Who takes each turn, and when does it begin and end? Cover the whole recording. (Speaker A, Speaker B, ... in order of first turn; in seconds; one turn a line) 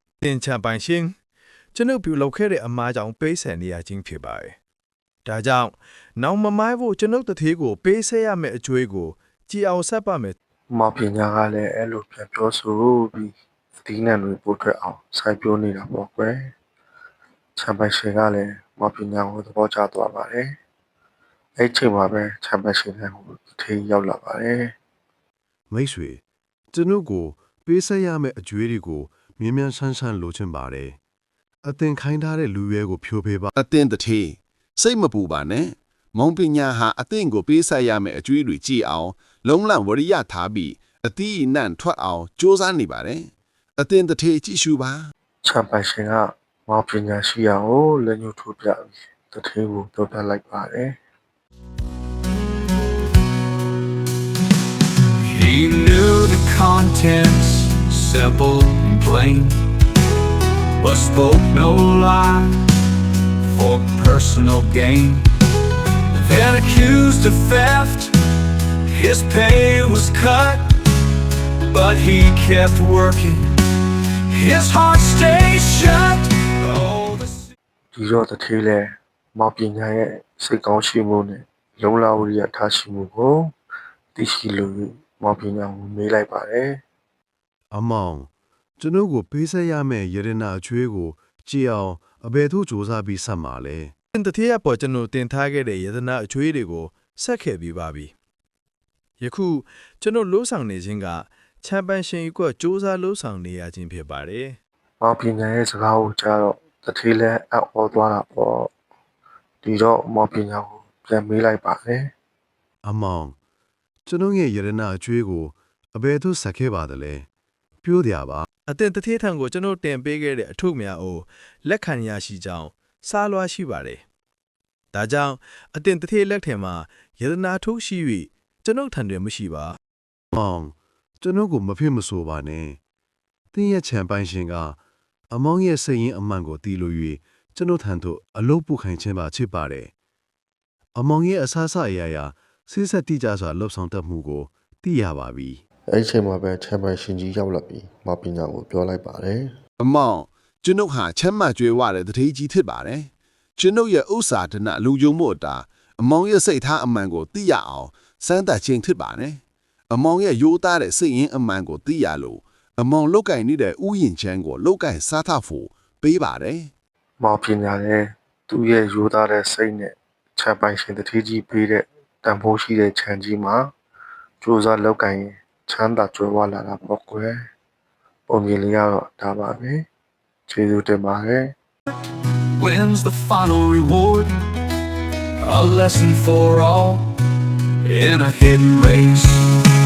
Speaker A: 0.2-1.1
Speaker A: 1.7-4.5
Speaker A: 5.2-10.3
Speaker B: 10.7-16.5
Speaker B: 17.6-20.5
Speaker B: 21.6-24.7
Speaker C: 25.7-31.0
Speaker C: 31.6-33.5
Speaker D: 33.5-45.1
Speaker B: 45.4-51.0
Speaker E: 55.3-59.6
Speaker E: 60.8-62.6
Speaker E: 63.5-65.2
Speaker E: 66.1-68.1
Speaker E: 68.9-70.7
Speaker E: 71.7-73.5
Speaker E: 74.3-77.4
Speaker B: 77.9-83.5
Speaker B: 84.1-86.8
Speaker C: 87.7-93.9
Speaker A: 94.1-98.1
Speaker A: 99.2-104.6
Speaker B: 105.0-108.7
Speaker B: 109.6-112.1
Speaker C: 112.8-113.3
Speaker C: 114.0-117.3
Speaker C: 117.8-118.5
Speaker A: 118.7-124.0
Speaker A: 124.9-129.8
Speaker C: 130.3-132.8
Speaker C: 133.5-134.8
Speaker C: 135.3-139.9
Speaker C: 140.9-145.6
Speaker B: 145.9-149.5
Speaker D: 149.8-166.7
Speaker B: 167.2-173.7
Speaker B: 174.4-177.4
Speaker B: 178.3-179.8
Speaker B: 180.5-181.5
Speaker E: 182.6-184.3
Speaker E: 185.4-187.1
Speaker E: 187.8-189.5